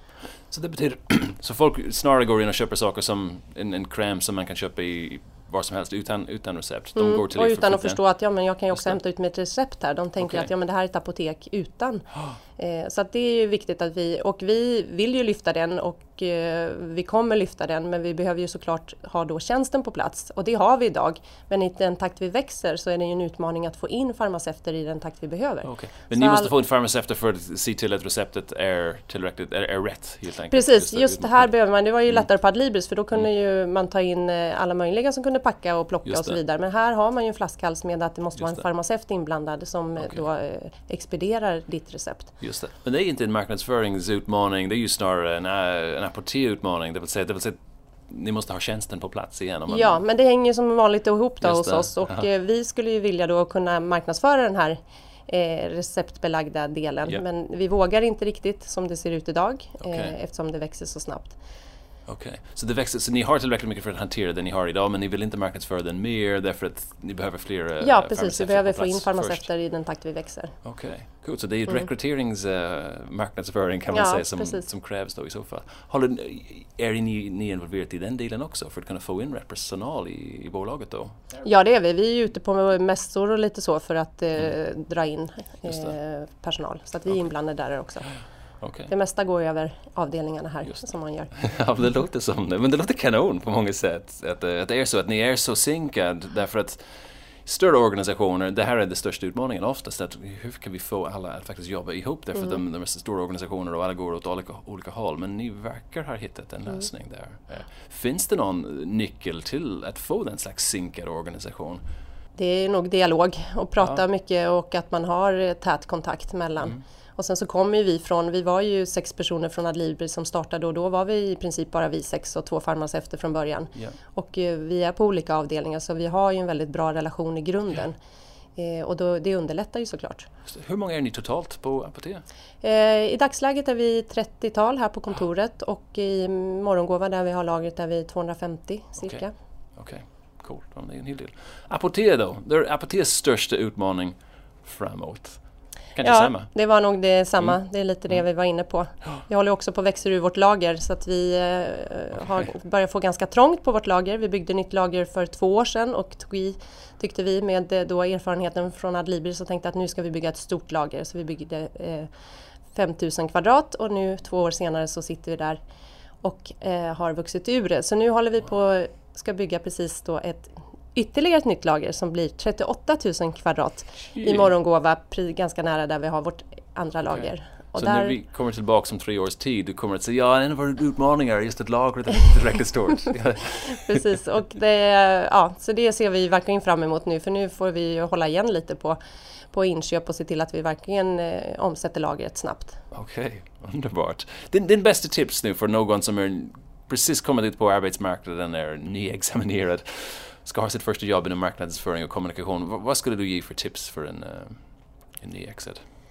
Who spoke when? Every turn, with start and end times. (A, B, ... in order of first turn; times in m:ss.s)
0:00.5-0:08.0 A
0:07.0-0:26.5 B
0:10.2-0:10.5 A
0:25.6-0:31.5 A
0:30.5-0:42.3 B
0:36.0-0:36.4 A
0:38.4-0:38.6 A
0:42.4-0:50.0 A
0:49.7-1:01.4 B
0:51.4-0:52.3 A
0:59.8-1:00.2 A
1:02.1-1:09.5 A
1:07.8-1:10.6 B
1:10.6-1:21.2 A
1:13.9-1:14.6 B
1:21.4-1:28.1 B
1:25.7-1:25.9 A
1:28.6-1:28.9 A
1:28.9-1:31.3 B
1:30.6-1:51.8 A
1:52.4-2:08.0 B
2:08.6-2:10.3 B
2:10.5-2:12.2 A
2:12.6-2:19.3 B
2:19.8-2:25.4 A
2:25.9-2:26.5 A
2:26.0-2:42.1 B
2:42.7-2:45.6 B
2:46.2-2:58.2 B
2:54.2-2:54.5 A
2:57.1-3:04.2 A
3:03.8-3:09.0 B
3:09.5-3:12.8 B
3:12.9-3:24.6 A
3:25.2-3:25.8 A